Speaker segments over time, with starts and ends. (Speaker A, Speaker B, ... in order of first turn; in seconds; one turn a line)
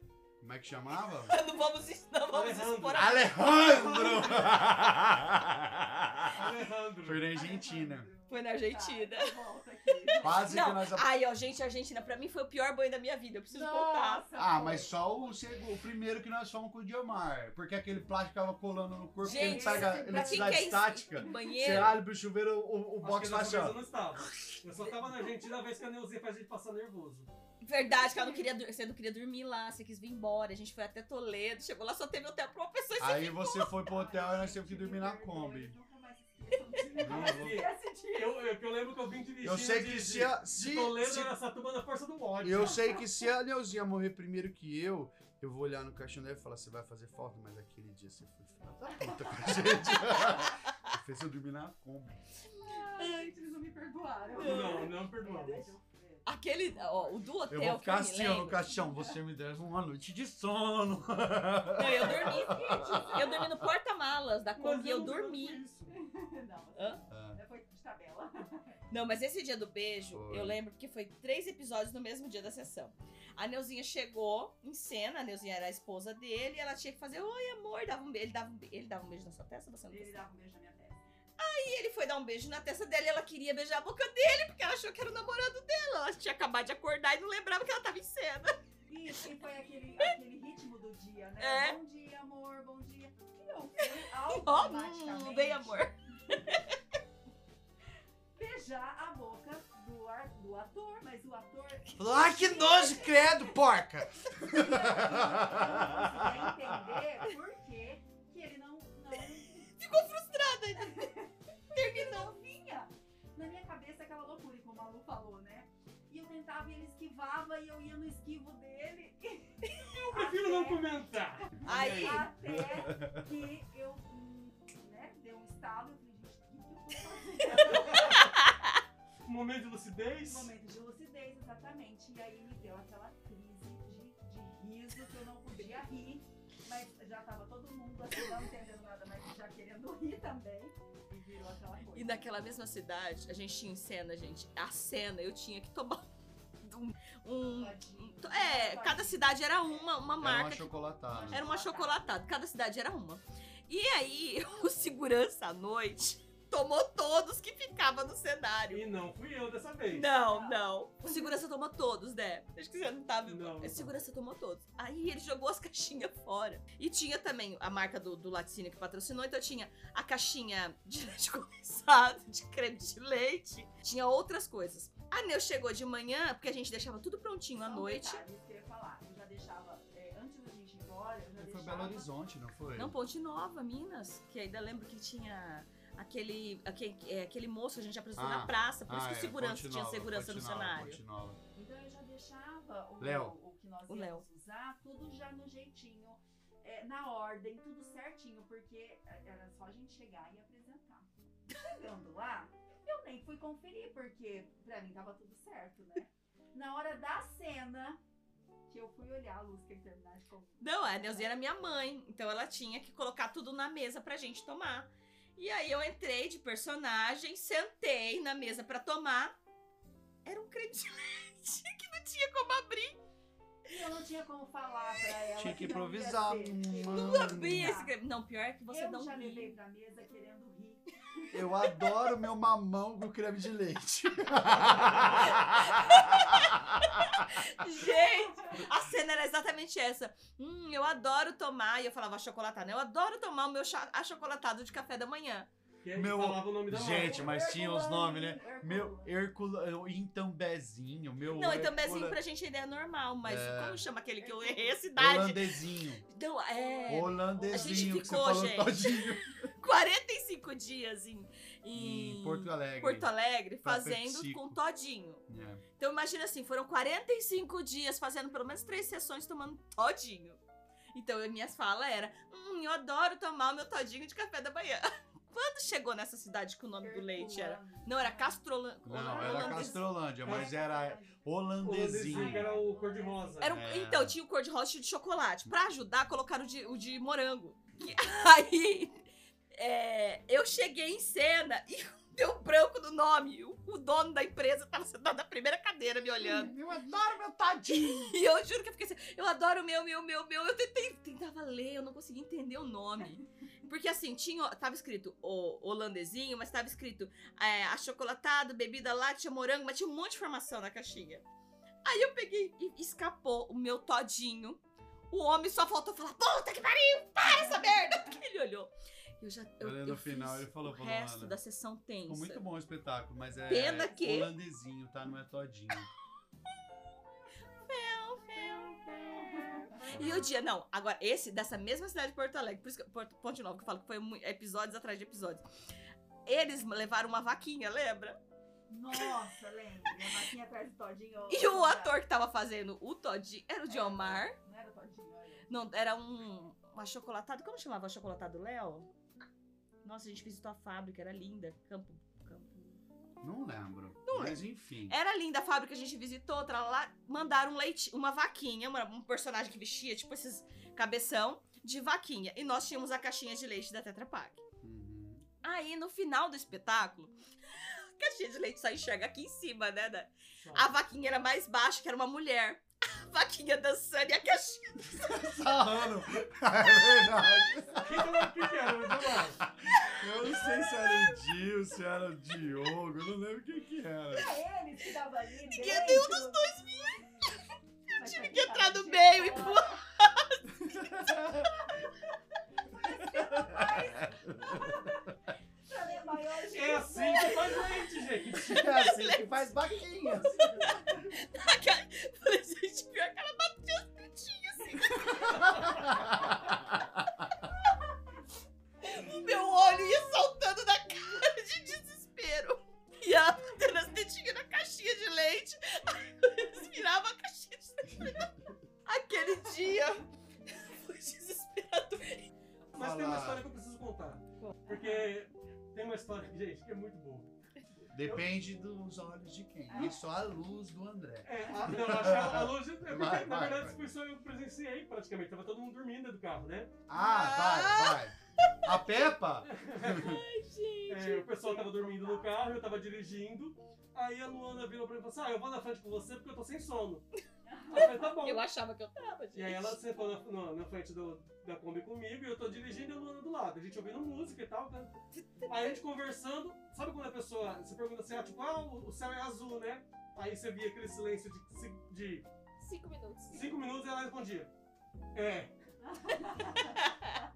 Speaker A: 0.4-1.4
Speaker B: 1.2-3.5
Speaker C: 2.3-4.6
Speaker A: 2.9-6.5
Speaker C: 6.3-7.3
Speaker A: 7.0-8.1
Speaker D: 7.3-10.7
Speaker B: 8.3-9.4
Speaker B: 10.1-14.2
Speaker A: 10.2-11.1
Speaker D: 13.5-15.3
Speaker A: 14.4-23.8
Speaker D: 19.2-20.8
Speaker B: 19.2-22.0
Speaker C: 23.0-27.3
Speaker B: 27.6-33.7
Speaker D: 27.9-28.5
Speaker A: 33.0-35.8
Speaker D: 33.8-38.4
Speaker C: 36.8-42.9
Speaker A: 37.0-37.6
Speaker A: 39.4-41.3
Speaker A: 42.4-52.2
Speaker D: 42.7-43.0
Speaker D: 48.8-50.4
Speaker B: 49.9-50.4
Speaker D: 52.4-57.4
Speaker B: 53.0-53.3
Speaker B: 54.4-54.9
Speaker C: 54.4-55.8
Speaker B: 56.2-58.8
Speaker A: 57.5-63.5
Speaker B: 61.8-65.6
Speaker D: 62.3-63.1
Speaker C: 64.6-65.9
Speaker D: 65.9-68.8
Speaker B: 66.8-67.0
Speaker A: 67.1-67.4
Speaker B: 68.9-80.2
Speaker A: 70.1-70.6
Speaker D: 79.9-81.1
Speaker B: 81.4-88.5
Speaker D: 88.9-96.4
Speaker B: 91.4-91.8
Speaker B: 94.3-96.6
Speaker D: 98.3-103.5
Speaker A: 102.0-107.1
Speaker D: 104.4-110.0
Speaker B: 109.7-111.1
Speaker D: 110.8-128.3
Speaker B: 111.7-112.3
Speaker B: 119.7-120.0
Speaker C: 120.0-122.3
Speaker B: 121.7-122.3
Speaker A: 122.7-123.2
Speaker C: 127.5-128.3
Speaker B: 128.1-128.8
Speaker C: 129.2-130.5
Speaker D: 130.2-142.3
Speaker B: 141.9-146.1
Speaker B: 146.6-150.8
Speaker D: 147.6-150.3
Speaker A: 150.2-151.4
Speaker D: 151.1-152.1
Speaker B: 151.3-158.8
Speaker C: 158.7-160.1
Speaker B: 159.9-178.2
Speaker D: 160.0-161.4
Speaker C: 163.3-163.9
Speaker D: 177.6-182.1
Speaker A: 181.4-182.9
Speaker B: 182.8-191.0
Speaker A: 188.2-191.4
Speaker D: 191.6-208.0
Speaker A: 193.0-193.3
Speaker B: 193.9-194.2
Speaker D: 208.7-211.3
Speaker B: 210.6-219.3
Speaker B: 220.2-223.0
Speaker D: 223.7-227.9
Speaker A: 225.4-227.8
Speaker B: 226.9-229.5
Speaker D: 228.7-231.7
Speaker A: 231.3-237.1
Speaker B: 235.2-245.5
Speaker D: 237.8-238.6
Speaker C: 245.8-247.4
Speaker A: 245.9-252.2
Speaker D: 246.8-249.1
Speaker B: 251.3-265.2
Speaker A: 253.2-253.9
Speaker D: 254.2-254.8
Speaker A: 255.0-256.1
Speaker D: 256.7-258.5
Speaker A: 256.9-259.4
Speaker A: 261.7-263.1
Speaker A: 263.6-264.6
Speaker A: 265.3-265.6
Speaker B: 265.8-270.4
Speaker B: 270.9-279.9
Speaker D: 276.8-283.5
Speaker A: 278.9-282.5
Speaker C: 280.2-280.5
Speaker C: 281.6-283.5
Speaker B: 283.4-289.0
Speaker A: 283.5-284.2
Speaker B: 289.5-296.5
Speaker A: 296.2-298.2
Speaker B: 297.7-311.2
Speaker B: 311.9-322.4
Speaker D: 317.4-317.8
Speaker A: 319.6-321.4
Speaker A: 322.1-325.9
Speaker B: 323.5-324.3
Speaker B: 327.6-335.4
Speaker D: 329.2-330.0
Speaker B: 336.3-338.2
Speaker D: 338.7-342.0
Speaker B: 341.3-344.4
Speaker D: 343.7-345.5
Speaker B: 345.5-348.9
Speaker B: 349.8-352.8
Speaker A: 353.2-355.0
Speaker B: 354.1-364.4
Speaker A: 364.6-365.3
Speaker B: 365.4-375.5
Speaker C: 370.4-370.7
Speaker A: 375.0-384.3
Speaker C: 377.8-379.4
Speaker B: 379.8-381.1
Speaker D: 384.1-386.6
Speaker B: 385.5-387.3
Speaker D: 387.9-389.8
Speaker B: 387.9-390.5
Speaker A: 390.6-391.5
Speaker D: 392.8-395.0
Speaker A: 393.2-394.8
Speaker D: 395.7-397.9
Speaker C: 396.5-398.7
Speaker A: 398.4-400.5
Speaker B: 398.5-400.0
Speaker D: 400.2-401.1
Speaker B: 400.6-405.7
Speaker A: 405.4-406.8
Speaker B: 408.8-418.3
Speaker B: 418.9-422.3
Speaker A: 422.7-423.5
Speaker C: 422.7-427.3
Speaker D: 424.7-425.1
Speaker A: 427.9-433.8
Speaker D: 429.7-430.1
Speaker C: 431.2-436.7
Speaker A: 436.9-440.2
Speaker B: 436.9-438.5
Speaker C: 439.5-440.2
Speaker B: 439.9-441.3
Speaker C: 440.9-447.1
Speaker D: 441.3-442.6
Speaker D: 447.4-448.2
Speaker C: 447.7-448.4
Speaker B: 447.8-449.9
Speaker C: 449.3-462.3
Speaker B: 455.1-455.8
Speaker B: 462.6-463.5
Speaker C: 463.3-464.5
Speaker C: 465.1-465.5
Speaker D: 465.9-466.8
Speaker B: 466.6-467.2